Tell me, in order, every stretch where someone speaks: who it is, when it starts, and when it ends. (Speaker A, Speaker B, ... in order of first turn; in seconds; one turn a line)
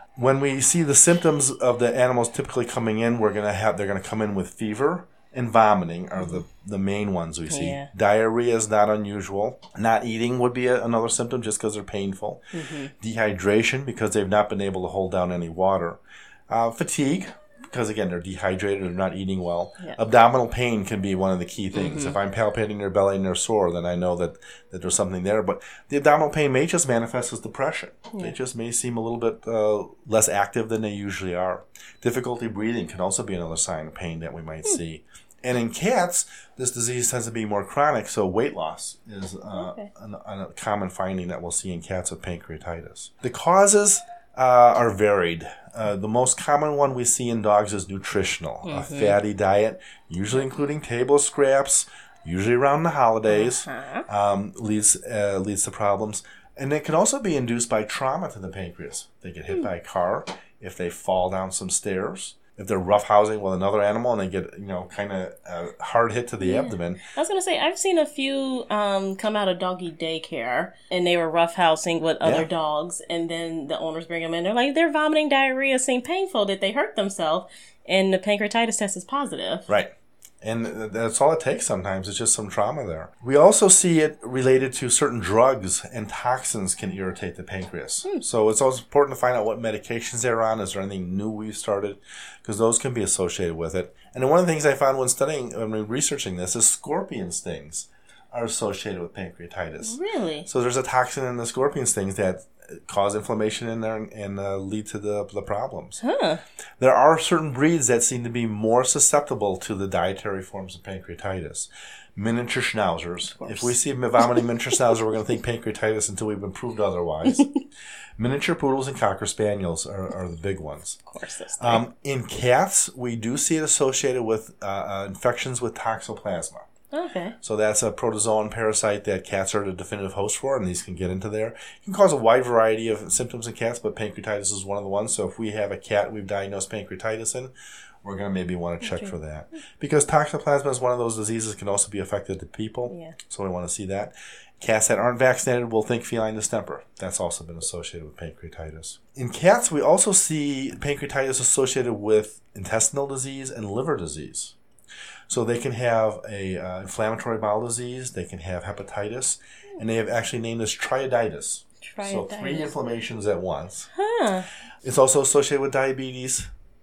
Speaker A: 0.2-12.4
Speaker B: 7.5-7.9
Speaker B: 12.5-12.9
Speaker A: 13.0-67.0
Speaker B: 21.7-22.2
Speaker B: 39.5-39.9
Speaker B: 48.7-49.2
Speaker B: 53.3-54.1
Speaker B: 66.4-79.7
Speaker A: 72.2-72.5
Speaker A: 80.4-106.0
Speaker B: 99.8-100.5
Speaker B: 106.0-106.4
Speaker A: 106.8-117.5
Speaker B: 113.4-113.7
Speaker A: 118.2-121.0
Speaker B: 121.1-121.8
Speaker A: 121.6-126.7
Speaker B: 126.9-127.4
Speaker A: 127.4-137.5
Speaker A: 138.0-154.6
Speaker B: 138.8-139.1
Speaker B: 142.9-143.2
Speaker A: 155.3-163.9
Speaker B: 161.8-162.7
Speaker B: 163.9-164.5
Speaker A: 164.8-166.5